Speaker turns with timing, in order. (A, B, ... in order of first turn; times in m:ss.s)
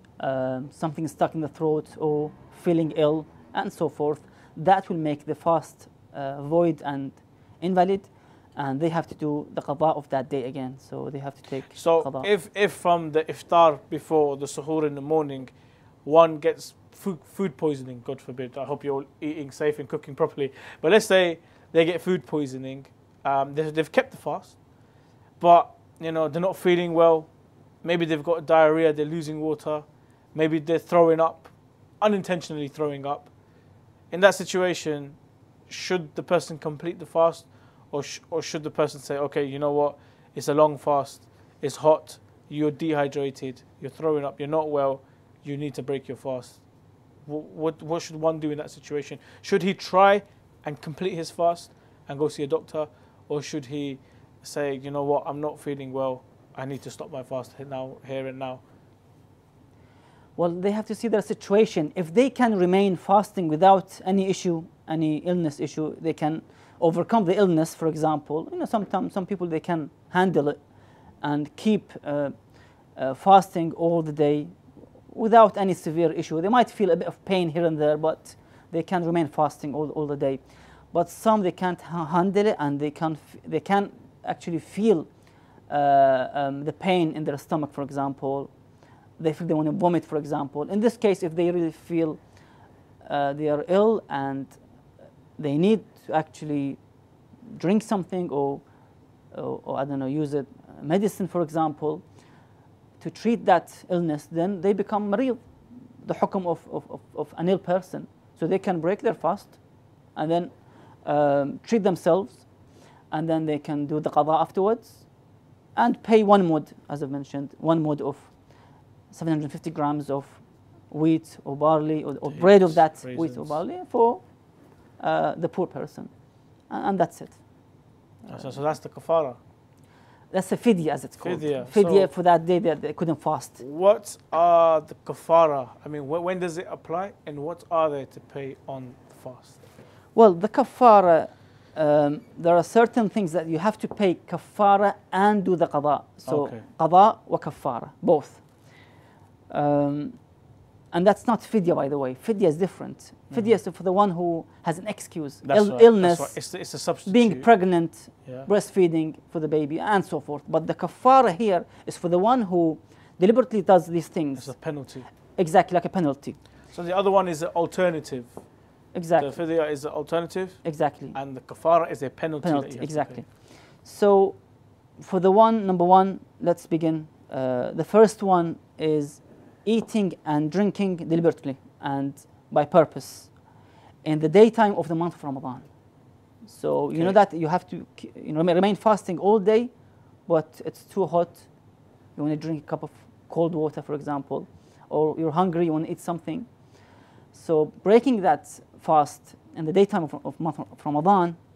0:00.2-0:12.3 A
0:11.7-0:24.6 B
0:25.4-0:27.3 B
0:27.8-0:33.3 B
0:34.1-0:46.6 B
0:47.2-0:58.6 B
1:00.4-1:10.6 A
1:11.2-1:12.3 A
1:13.0-1:25.1 A
1:25.7-1:28.5 A
1:29.2-1:32.2 A
1:33.0-1:34.6 A
1:35.4-1:36.8 A
1:37.5-1:38.6 A
1:39.3-1:42.0 A
1:43.0-1:45.5 A
1:46.0-1:52.5 A
1:53.1-1:55.2 A
1:55.7-1:58.4 A
1:59.1-2:04.4 A
2:02.2-2:03.6 B
2:05.0-2:06.1 A
2:06.7-2:07.4 A
2:08.2-2:09.4 B
2:08.3-2:08.6 A
2:10.3-2:13.6 A
2:11.2-2:12.1 B
2:13.6-2:19.6 B
2:20.1-2:28.7 A
2:26.3-2:26.6 B
2:29.5-2:30.3 A
2:30.9-2:46.4 A
2:33.3-2:33.6 B
2:35.4-2:37.5 B
2:38.1-2:38.5 B
2:44.4-2:45.1 B
2:46.7-2:48.5 B
2:48.9-2:49.4 A
2:49.2-2:53.2 B
2:50.6-2:51.2 A
2:52.4-3:03.5 A
3:04.0-3:05.7 A
3:06.4-3:09.7 A
3:10.3-3:11.5 A
3:12.2-3:16.5 A
3:17.3-3:21.4 A